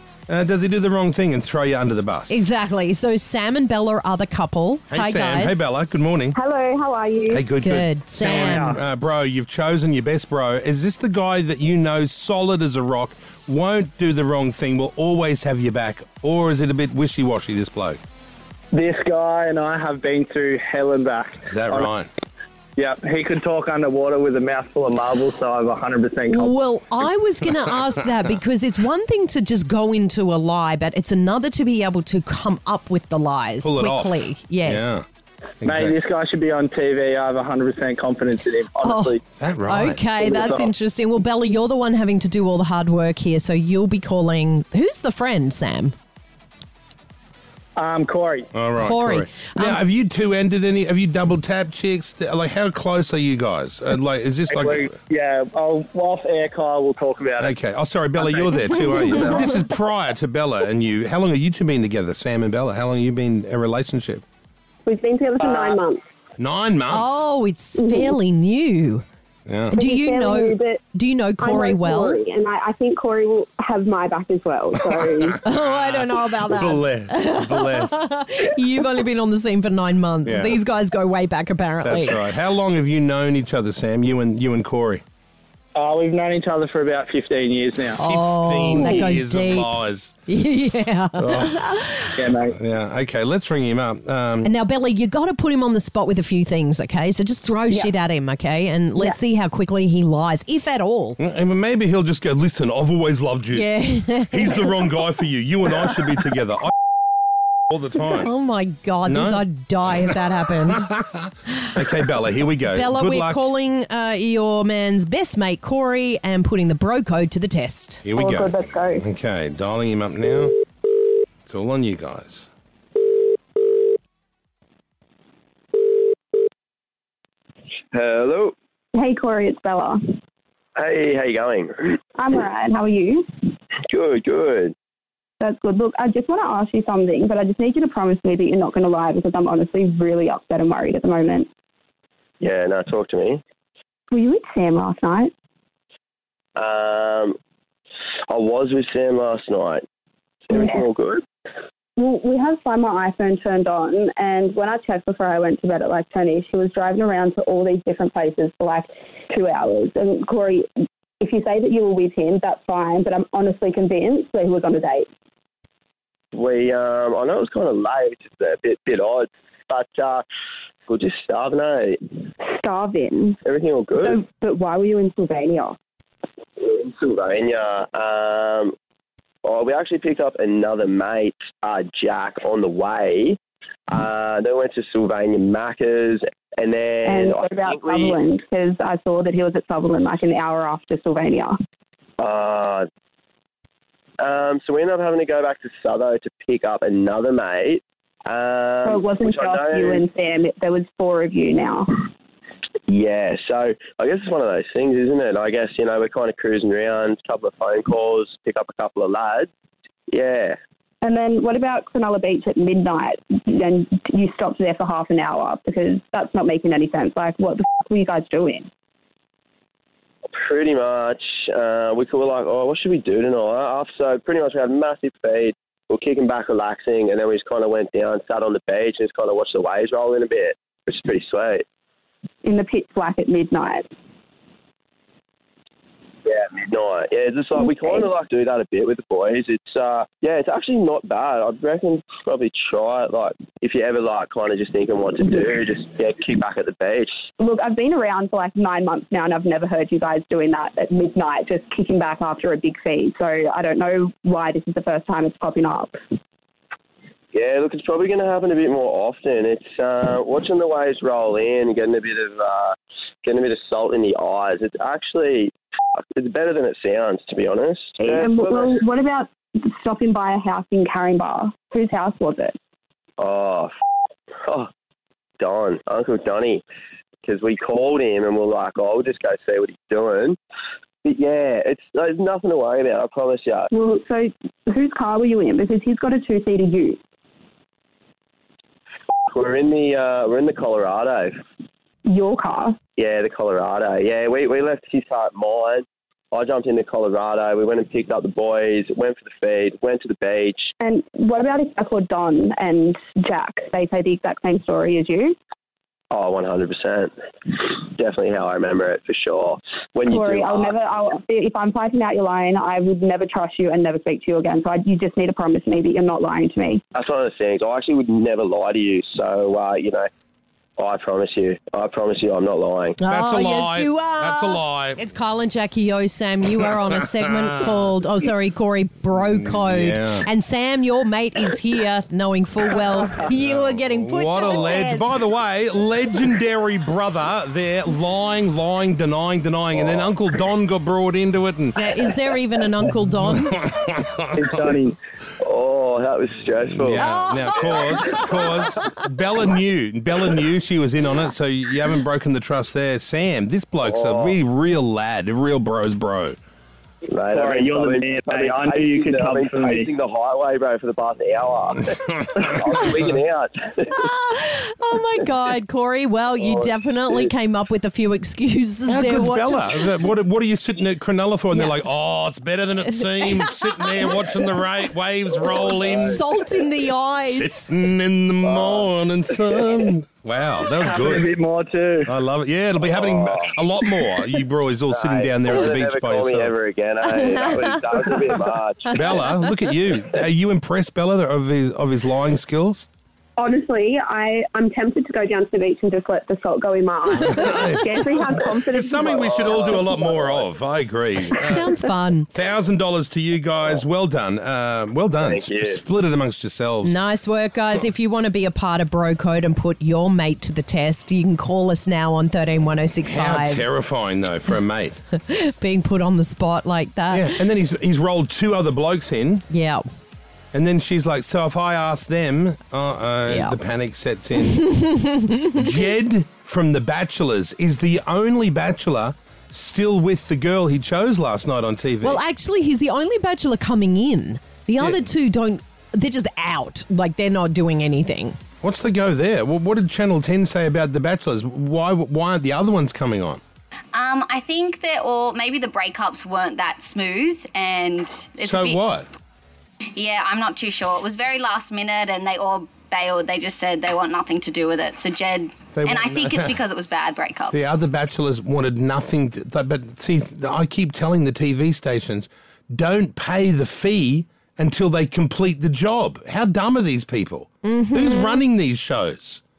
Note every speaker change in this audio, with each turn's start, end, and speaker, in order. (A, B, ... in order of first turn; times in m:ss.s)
0:00.3-0:02.4 A
0:02.3-0:05.7 B
0:04.9-0:06.4 A
0:06.4-0:07.4 C
0:07.3-0:18.0 A
0:07.6-0:08.8 B
0:08.3-0:08.8 D
0:18.7-0:21.9 D
0:21.4-0:22.1 A
0:22.8-0:26.6 D
0:26.3-0:35.0 B
0:33.6-0:35.0 A
0:35.6-0:36.0 A
0:35.6-0:39.2 D
0:38.8-0:46.0 B
0:39.4-0:40.0 A
0:40.2-0:40.7 D
0:47.8-0:48.5 D
0:48.5-0:55.0 A
0:48.8-0:49.8 B
0:54.5-0:57.6 D
0:57.4-1:04.2 A
0:58.2-0:59.5 D
0:58.9-0:59.4 B
1:04.9-1:06.0 C
1:05.4-1:05.9 D
1:06.4-1:07.2 A
1:06.9-1:09.0 B
1:07.8-1:08.2 C
1:09.5-1:09.8 A
1:09.7-1:10.8 C
1:09.8-1:12.2 B
1:11.4-1:15.4 C
1:15.4-1:22.2 B
1:15.5-1:18.1 A
1:20.3-1:20.6 A
1:21.8-1:25.0 A
1:25.8-1:28.0 D
1:28.0-1:32.1 B
1:28.0-1:30.2 A
1:31.2-1:31.7 A
1:32.2-1:32.6 D
1:32.5-1:34.5 A
1:34.4-1:41.2 B
1:41.2-1:43.7 A
1:43.5-1:44.7 B
1:44.3-1:46.7 A
1:47.7-1:48.3 A
1:48.2-1:50.9 B
1:49.1-1:49.5 A
1:51.8-1:53.4 A
1:52.7-1:58.0 B
1:58.0-2:00.6 A
1:58.2-1:59.0 C
2:01.5-2:02.5 A
2:07.9-2:08.5 E
2:08.9-2:10.0 C
2:10.8-2:12.0 E
2:12.2-2:13.3 C
2:13.9-2:14.7 E
2:15.4-2:21.5 C
2:22.4-2:23.4 E
2:24.1-2:25.3 C
2:26.6-2:27.4 E
2:28.3-2:29.8 E
2:30.5-2:31.2 E
2:32.0-2:40.7 C
2:41.2-2:45.1 C
2:46.3-2:50.2 E
2:50.9-2:52.2 E
2:52.4-2:53.4 C
2:53.4-2:54.2 E
2:54.0-2:55.8 C
2:56.6-2:58.7 E
2:59.4-3:03.4 E
3:03.9-3:08.2 E
3:07.0-3:11.6 C
3:12.2-3:12.8 E
3:14.2-3:20.0 E
3:18.8-3:22.0 C
3:22.9-3:29.5 E
3:30.1-3:30.6 E
3:31.0-3:38.7 C
3:40.3-3:51.6 E
3:52.4-3:53.9 C
3:56.3-4:07.2 E
4:07.4-4:16.0 C
4:17.3-4:25.5 E
4:26.2-4:28.8 E
4:28.0-4:32.6 C
4:33.2-4:33.7 E
4:35.4-4:36.6 E
4:37.2-4:40.4 E
4:41.0-4:43.7 E
4:43.7-4:47.0 C
4:49.3-4:51.3 E
4:52.1-4:52.8 C
4:53.0-5:00.7 E
5:00.8-5:05.4 C
5:06.1-5:11.2 E
5:10.1-5:16.8 C
5:16.9-5:20.1 E
5:20.8-5:23.0 E
5:23.0-5:35.1 B
5:23.1-5:25.0 A
5:29.5-5:30.3 A
5:33.4-5:41.9 A
5:41.8-5:43.7 B
5:44.3-5:45.0 D
5:45.4-5:47.1 E
5:46.7-5:56.4 A
5:47.0-5:48.9 B
5:53.8-5:54.4 E
5:57.1-6:03.9 E
5:57.3-5:59.9 D
6:03.9-6:09.8 B
6:06.4-6:07.3 E
6:08.9-6:16.2 A
6:11.5-6:11.9 B
6:12.9-6:14.5 B
6:15.7-6:16.1 E
6:15.9-6:17.7 B
6:17.2-6:21.3 A
6:18.4-6:19.8 E
6:20.8-6:22.1 D
6:22.1-6:26.6 A
6:22.8-6:23.5 E
6:24.9-6:29.0 E
6:27.1-6:27.7 B
6:27.9-6:28.2 D
6:28.9-6:32.9 A
6:33.4-6:40.0 C
6:37.2-6:41.7 A
6:39.1-6:40.5 E
6:41.4-6:42.3 B
6:42.3-6:47.0 A
6:45.2-6:45.8 E
6:46.8-6:53.7 B
6:53.1-6:55.0 A
6:55.1-6:57.4 B
6:57.1-6:59.4 A
6:59.5-6:59.8 B
7:00.5-7:04.7 A
7:03.3-7:03.6 B
7:04.4-7:05.6 B
7:05.6-7:12.2 A
7:12.0-7:18.4 B
7:14.8-7:15.0 A
7:18.6-7:23.4 A
7:23.9-7:28.8 F
7:28.4-7:29.1 A
7:30.0-7:37.7 F
7:35.8-7:36.6 A
7:37.5-7:49.4 A
7:47.6-7:48.4 B